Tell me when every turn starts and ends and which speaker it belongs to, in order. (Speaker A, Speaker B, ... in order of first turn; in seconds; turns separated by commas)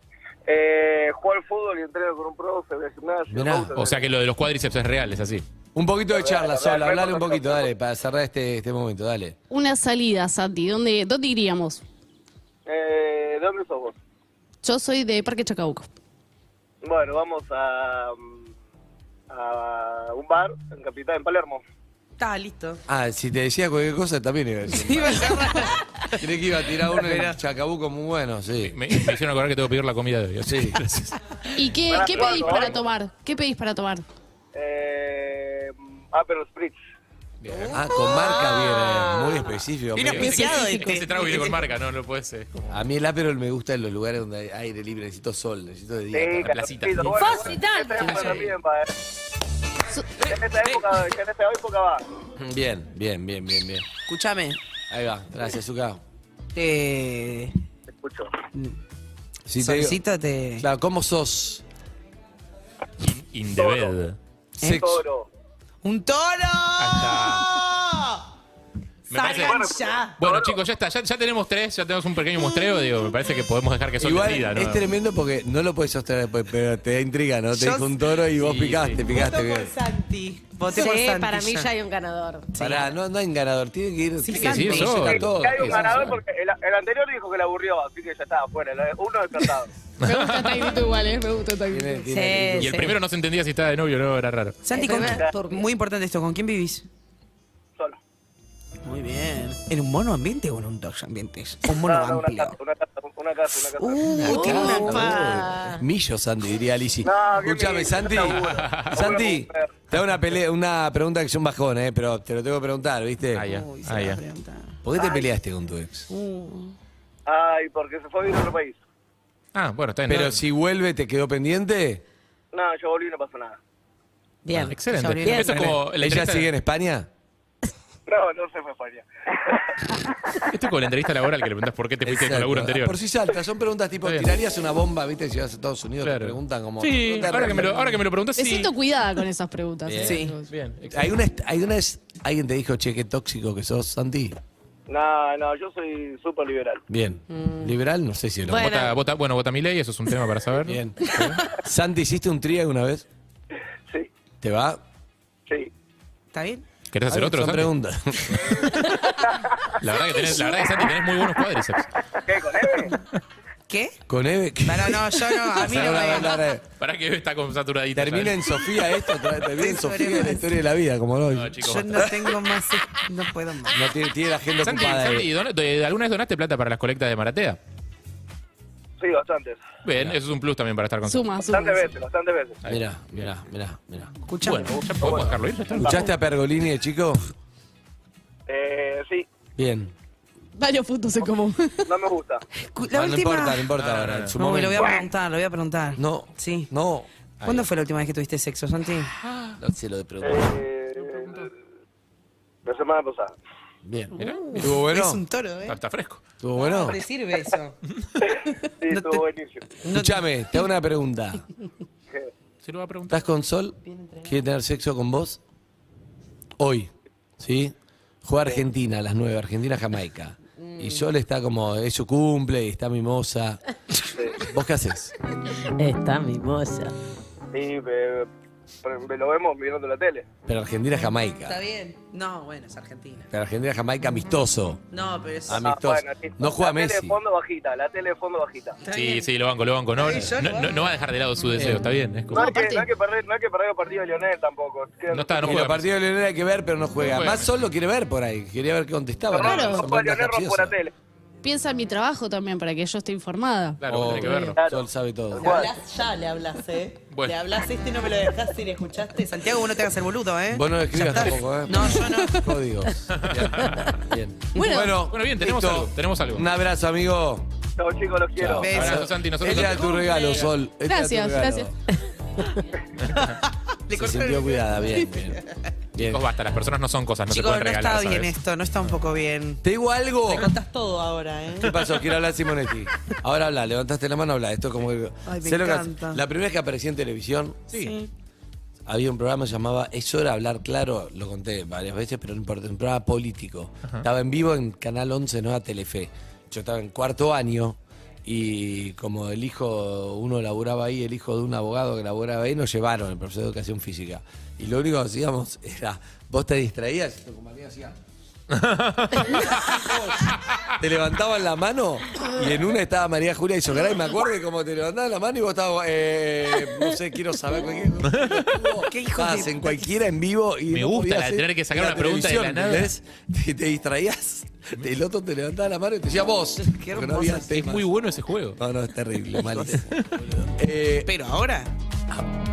Speaker A: 0.5-4.1, Speaker B: 3.3-3.7, Speaker C: 3.8-5.5, Speaker B: 5.8-9.4, Speaker A: 6.1-7.7, Speaker D: 9.5-11.8, Speaker A: 12.7-13.9, Speaker D: 14.6-15.9, Speaker A: 16.8-18.5, Speaker A: 19.3-21.6, Speaker E: 22.2-22.8, Speaker B: 22.9-28.8, Speaker E: 24.7-26.3, Speaker E: 26.9-27.4, Speaker C: 28.6-31.2, Speaker B: 30.4-30.8, Speaker D: 31.5-34.0, Speaker A: 31.9-32.9, Speaker A: 34.5-36.8, Speaker C: 37.4-37.8, Speaker E: 37.7-39.4, Speaker B: 37.7-40.7, Speaker E: 40.0-41.6, Speaker C: 40.0-42.7, Speaker B: 42.7-46.5, Speaker A: 46.1-48.9, Speaker C: 46.4-47.5, Speaker F: 47.1-48.5, Speaker E: 48.1-48.4, Speaker A: 50.3-52.0, Speaker B: 52.4-53.9, Speaker E: 54.1-54.6, Speaker B: 54.9-56.0, Speaker E: 56.5-57.5, Speaker A: 57.9-58.4, Speaker B: 59.5-60.0, Speaker E: 59.6-60.7, Speaker B: 60.6-61.6, Speaker C: 63.0-64.2, Speaker A: 63.6-64.0, Speaker E: 64.6-64.9, Speaker B: 64.6-65.0, Speaker A: 64.7-65.3, Speaker E: 65.8-68.2, Speaker C: 66.8-67.5, Speaker C: 69.1-69.7, Speaker E: 69.1-70.2, Speaker A: 69.4-70.5, Speaker C: 70.2-74.8, Speaker B: 74.0-79.7, Speaker E: 77.5-77.9, Speaker C: 78.3-79.0, Speaker E: 79.1-81.7, Speaker F: 80.7-82.5, Speaker E: 82.5-82.9, Speaker B: 82.6-86.0, Speaker E: 84.2-85.1, Speaker C: 84.3-85.8, Speaker A: 85.2-89.7, Speaker C: 90.0-90.8, Speaker D: 90.0-92.1, Speaker B: 91.7-92.9, Speaker F: 92.1-92.9, Speaker C: 92.6-94.6, Speaker E: 94.6-96.8, Speaker F: 94.7-95.7, Speaker E: 98.9-102.5, Speaker A: 101.8-104.3, Speaker E: 103.8-105.4, Speaker F: 104.2-105.8, Speaker B: 104.2-108.4, Speaker A: 107.0-109.7, Speaker C: 108.3-109.0, Speaker B: 108.9-113.5, Speaker C: 113.4-114.2, Speaker E: 113.5-114.8, Speaker B: 114.8-116.1, Speaker E: 116.1-116.7, Speaker A: 117.3-118.8, Speaker C: 119.5-120.4, Speaker B: 120.1-122.0, Speaker A: 122.5-123.6, Speaker F: 124.5-125.7, Speaker C: 124.7-126.5, Speaker E: 124.9-125.7, Speaker B: 125.5-127.1, Speaker A: 128.1-129.6, Speaker C: 130.5-133.0, Speaker B: 132.1-137.8, Speaker C: 134.1-134.3, Speaker C: 136.0-138.7, Speaker D: 138.4-140.5, Speaker B: 139.9-140.2, Speaker E: 140.1-140.3, Speaker C: 140.5-141.1, Speaker B: 140.9-144.4, Speaker A: 144.9-146.8, Speaker B: 146.9-148.8, Speaker F: 147.3-147.7, Speaker F: 148.5-148.9, Speaker C: 148.5-151.4, Speaker B: 150.7-153.1, Speaker B: 154.4-154.8, Speaker E: 156.3-156.6, Speaker C: 156.9-157.8, Speaker B: 157.1-158.6, Speaker C: 159.8-161.9, Speaker A: 162.2-162.9, Speaker E: 163.7-164.0, Speaker B: 164.1-166.6, Speaker E: 164.7-166.4, Speaker C: 165.7-168.6, Speaker B: 167.9-172.1, Speaker E: 169.6-170.5, Speaker C: 171.3-172.1, Speaker E: 171.6-173.8, Speaker B: 173.7-175.3, Speaker C: 174.6-177.6, Speaker A: 179.0-179.6, Speaker C: 179.8-181.3, Speaker D: 181.1-181.9, Speaker A: 181.4-182.6, Speaker C: 182.6-183.3, Speaker B: 182.7-184.1, Speaker E: 184.3-184.8, Speaker C: 184.4-186.1, Speaker A: 184.9-185.4, Speaker B: 185.8-187.2, Speaker A: 188.5-189.3, Speaker B: 189.6-189.9, Speaker D: 190.6-191.9, Speaker A: 191.9-192.4, Speaker E: 192.6-193.7, Speaker B: 192.9-195.0, Speaker C: 193.8-194.3, Speaker E: 194.4-196.7, Speaker B: 196.0-197.1, Speaker E: 197.4-199.1, Speaker C: 199.2-199.6, Speaker B: 199.6-200.6, Speaker A: 200.2-201.5, Speaker C: 201.0-201.5, Speaker A: 202.7-203.4, Speaker B: 203.8-205.2, Speaker C: 204.2-204.7, Speaker E: 204.6-205.8, Speaker C: 205.7-206.2, Speaker B: 206.4-207.0, Speaker E: 206.6-207.8, Speaker A: 208.8-209.6, Speaker E: 208.9-209.3, Speaker E: 209.8-210.2, Speaker B: 209.9-211.4, Speaker C: 212.6-213.3, Speaker B: 213.1-215.4, Speaker B: 216.6-217.7, Speaker B: 218.2-223.6, Speaker B: 224.5-225.1, Speaker F: 225.8-226.9, Speaker A: 227.5-228.3, Speaker A: 228.8-230.3, Speaker B: 230.5-231.6, Speaker E: 231.4-233.3, Speaker B: 233.3-234.8, Speaker E: 234.9-235.6, Speaker B: 235.5-237.2, Speaker A: 235.6-238.8, Speaker E: 238.8-239.2, Speaker C: 238.9-242.4, Speaker E: 240.0-240.9, Speaker B: 241.6-241.9, Speaker D: 242.3-242.9, Speaker A: 242.3-245.6, Speaker C: 245.1-245.9, Speaker B: 245.4-250.8, Speaker C: 247.1-247.5, Speaker A: 249.3-250.9, Speaker D: 249.4-249.9, Speaker D: 251.4-254.6, Speaker C: 253.8-254.6, Speaker B: 253.9-255.7, Speaker A: 254.6-254.8, Speaker E: 255.3-262.4, Speaker A: 255.4-255.7, Speaker C: 257.1-257.4, Speaker B: 260.5-267.5, Speaker D: 261.8-262.5, Speaker C: 263.1-263.9, Speaker D: 264.6-265.0, Speaker C: 265.0-266.5, Speaker A: 267.8-269.0, Speaker B: 268.4-271.7, Speaker E: 268.6-270.5, Speaker C: 268.7-269.9, Speaker D: 270.8-271.7, Speaker E: 273.2-275.6, Speaker B: 273.9-275.4, Speaker B: 275.9-276.2, Speaker C: 276.0-278.3, Speaker E: 277.3-279.6, Speaker B: 279.6-280.5, Speaker E: 280.3-281.9, Speaker B: 281.6-287.7, Speaker E: 285.3-286.2, Speaker E: 287.7-288.1, Speaker B: 288.9-308.0, Speaker C: 308.5-309.4, Speaker B: 309.3-327.9, Speaker C: 318.1-318.5, Speaker E: 318.9-319.6, Speaker C: 320.7-322.9, Speaker E: 326.6-327.6, Speaker C: 327.6-328.6, Speaker B: 328.6-331.1, Speaker E: 329.5-329.8, Speaker E: 331.1-331.7